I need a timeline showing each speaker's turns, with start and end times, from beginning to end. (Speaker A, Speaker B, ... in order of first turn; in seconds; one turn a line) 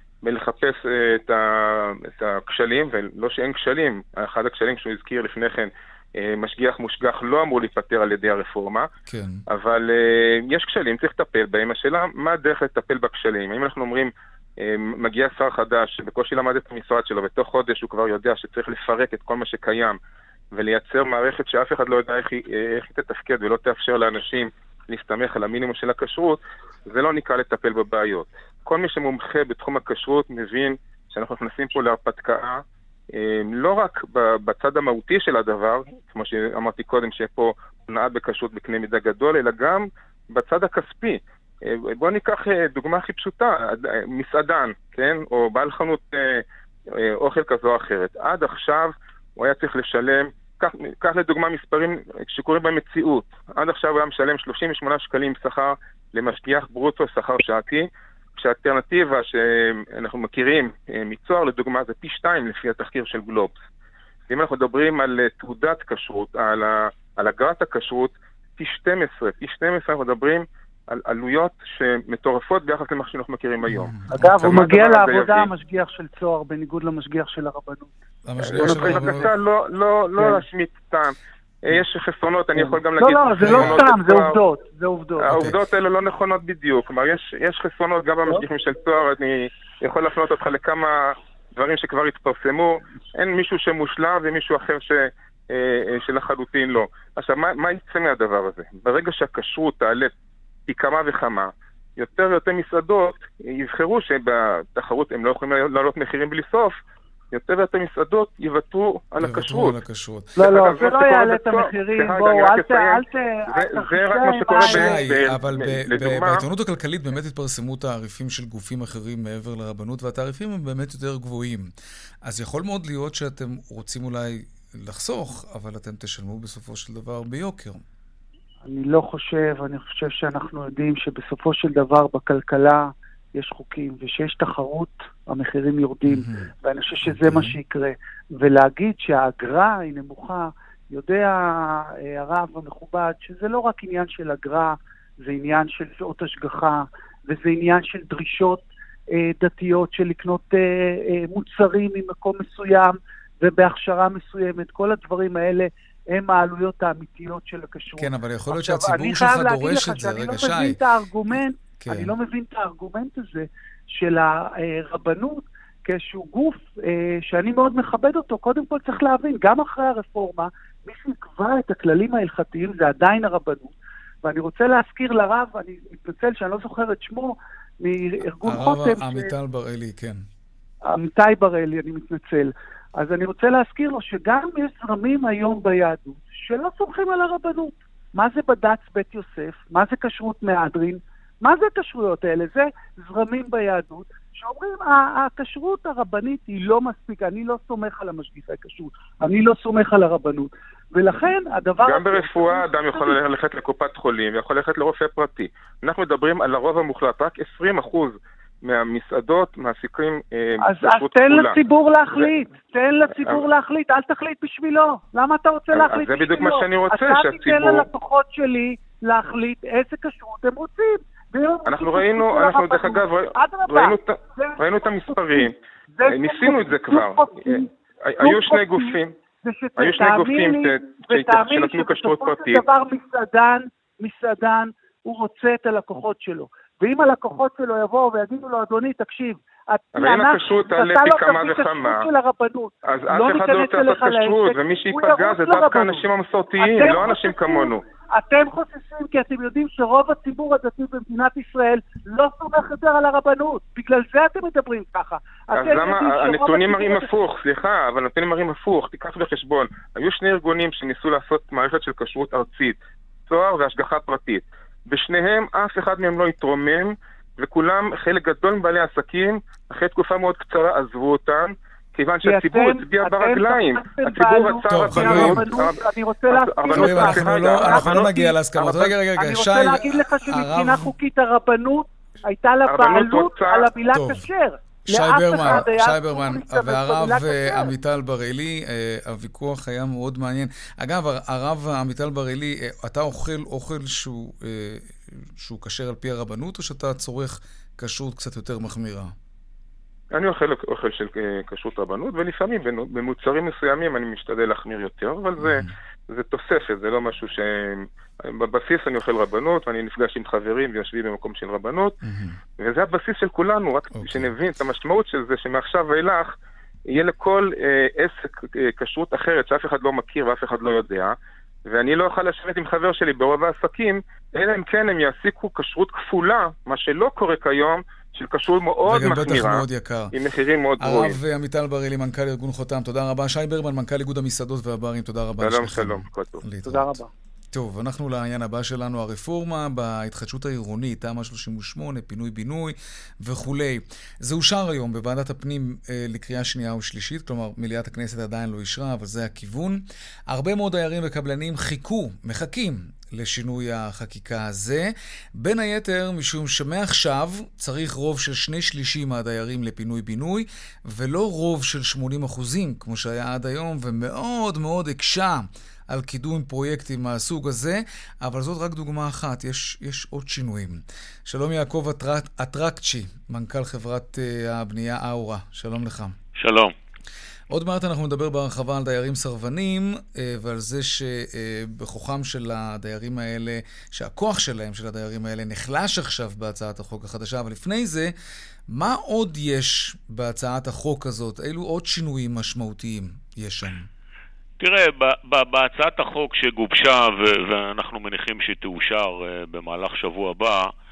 Speaker A: 0.2-8.9
Speaker B: 9.1-9.4
Speaker A: 9.5-20.0
Speaker A: 20.5-63.5
Speaker A: 64.3-75.5
Speaker B: 73.7-74.6
Speaker C: 74.1-77.9
Speaker B: 78.2-79.3
Speaker A: 78.5-84.4
Speaker C: 78.5-79.2
Speaker C: 82.6-85.3
Speaker B: 83.4-83.8
Speaker A: 85.2-100.1
Speaker B: 85.3-85.6
Speaker A: 100.7-106.8
Speaker A: 107.3-109.8
Speaker B: 109.2-110.3
Speaker C: 110.4-115.1
Speaker A: 110.4-116.4
Speaker B: 114.6-121.7
Speaker B: 122.2-127.8
Speaker C: 128.6-179.3
Speaker B: 136.0-136.5
Speaker B: 137.0-137.6
Speaker B: 158.0-160.8
Speaker B: 161.3-162.1
Speaker B: 178.4-180.2
Speaker C: 180.8-203.2
Speaker A: 201.8-211.6
Speaker C: 210.6-227.7
Speaker A: 215.7-217.9
Speaker A: 221.7-225.5
Speaker A: 226.1-229.1
Speaker C: 228.2-246.1
Speaker A: 229.8-232.6
Speaker A: 239.9-242.0
Speaker A: 242.8-247.8
Speaker C: 246.6-257.1
Speaker A: 255.5-278.9
Speaker C: 272.2-278.3
Speaker B: 274.7-275.6
Speaker B: 276.7-280.9
Speaker C: 279.1-287.7
Speaker A: 282.6-283.7
Speaker B: 283.9-284.3
Speaker B: 284.9-299.1
Speaker A: 300.1-312.0
Speaker B: 305.4-305.7
Speaker B: 312.0-312.4
Speaker A: 312.6-316.3
Speaker B: 313.9-314.3
Speaker A: 316.9-321.1
Speaker A: 321.7-331.2
Speaker B: 328.9-330.1
Speaker B: 330.8-337.0
Speaker A: 335.4-336.4
Speaker C: 336.6-337.1
Speaker B: 337.5-376.1
Speaker D: 376.4-376.7
Speaker B: 377.5-388.1
Speaker B: 388.7-393.9
Speaker D: 394.6-400.7